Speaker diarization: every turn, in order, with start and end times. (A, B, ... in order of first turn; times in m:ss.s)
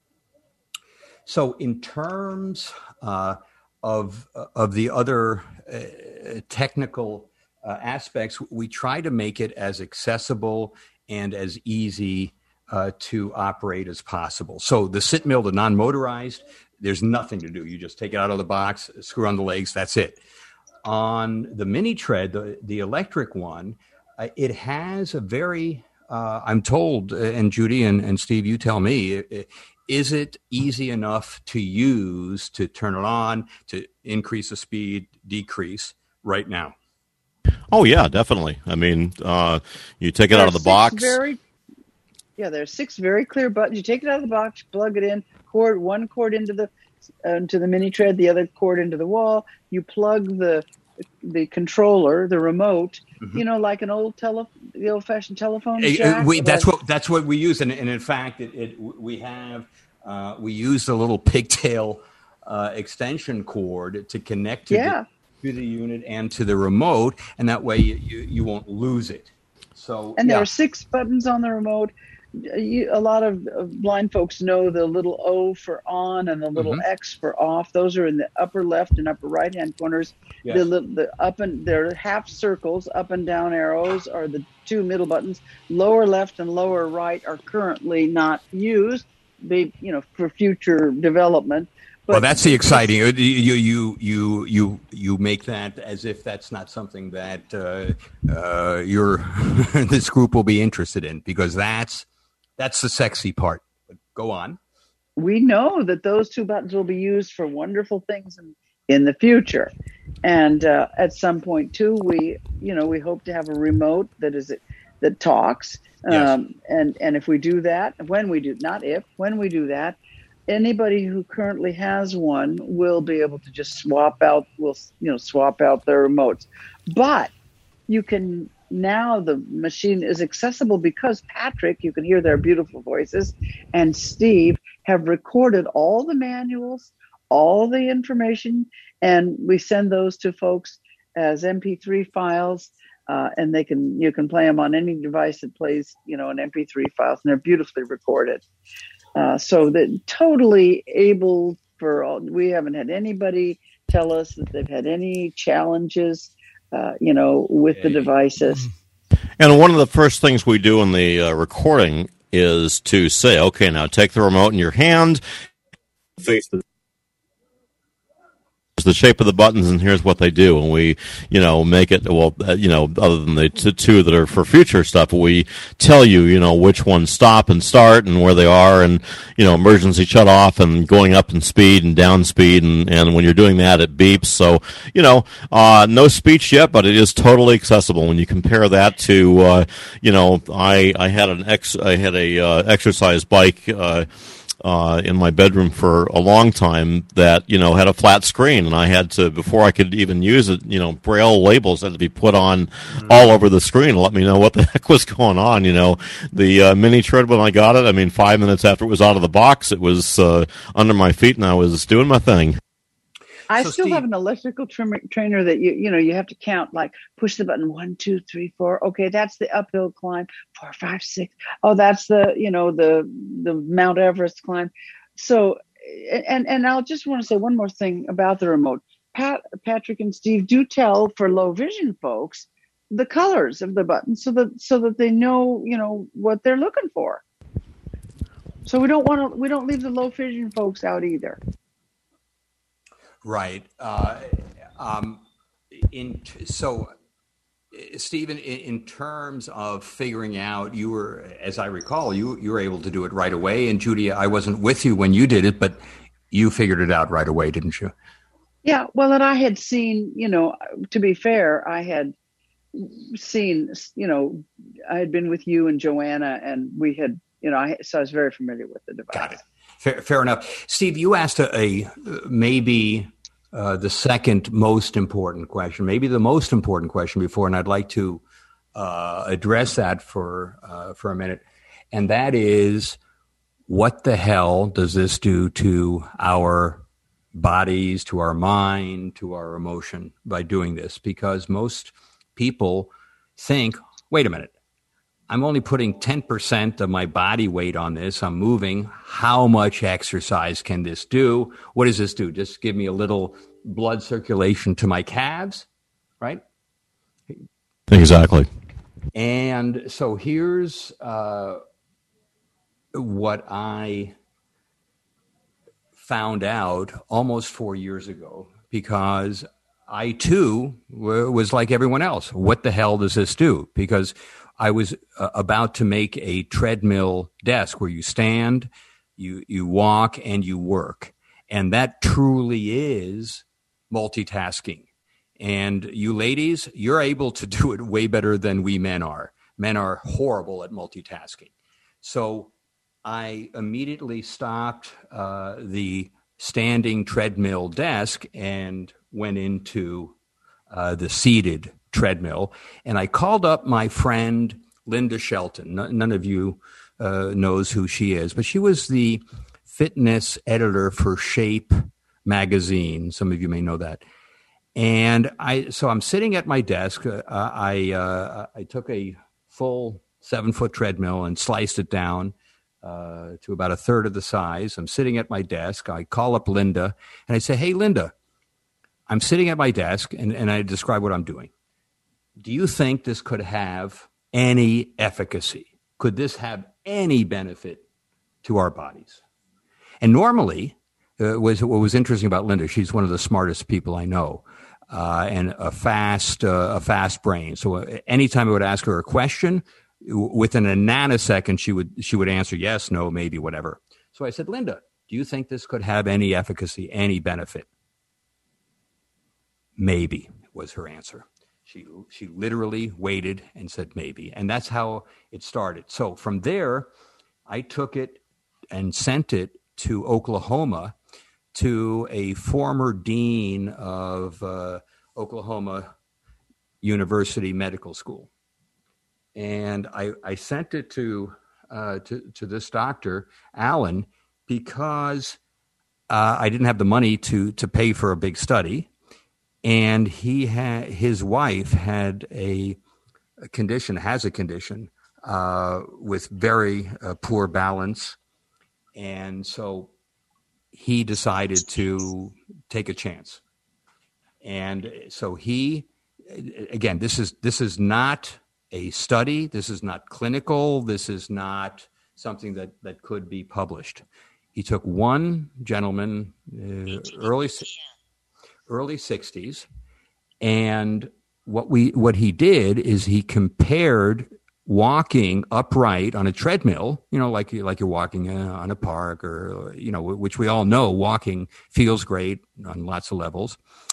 0:01.2-0:20.2 A
0:20.8-0:36.8 A
0:37.7-0:41.2 B
0:40.3-0:41.4 C
0:42.4-0:46.7 C
0:47.2-0:50.6 C
0:51.2-0:56.7 C
0:55.8-1:10.5 A
1:04.7-1:05.0 C
1:10.2-1:32.9 C
1:16.5-1:16.8 A
1:32.1-1:42.1 A
1:42.6-1:44.6 A
1:45.2-1:49.7 C
1:50.2-2:00.0 C
1:56.1-1:56.3 A
2:00.5-2:07.3 C
2:07.9-2:28.4 C
2:29.2-2:38.6 C
2:37.7-2:38.1 A
2:39.4-2:45.2 B
2:46.2-2:46.6 B
2:48.8-3:14.1 B
3:14.6-3:32.6 B
3:23.0-3:23.3 A
3:33.5-3:57.2 C
3:33.5-3:34.0 A
3:58.6-4:01.4 C
4:03.2-4:06.9 A
4:07.7-4:17.9 A
4:18.6-4:22.1 C
4:22.7-4:29.4 C
4:29.1-4:38.2 A
4:38.7-4:43.0 A
4:43.7-4:54.5 A
4:55.3-5:05.6 A
5:07.9-5:08.5 B
5:09.1-5:11.6 A
5:12.9-5:14.1 A
5:16.0-5:34.9 A
5:35.4-5:42.5 A
5:43.0-5:50.1 A
5:50.7-6:04.0 A
6:04.7-6:18.1 A
6:19.1-6:21.5 A
6:22.4-6:27.8 A
6:28.4-6:29.2 A
6:30.0-6:47.7 A
6:49.8-6:56.9 A
6:57.5-7:00.9 A
7:01.5-7:05.9 A
7:06.8-7:08.3 A
7:09.4-7:15.4 A
7:16.1-7:18.9 A
7:19.6-7:22.8 A
7:23.4-7:28.2 A
7:28.9-7:29.9 A
7:30.7-7:33.4 A
7:34.4-7:47.7 A
7:48.7-7:49.7 A
7:50.4-8:03.6 A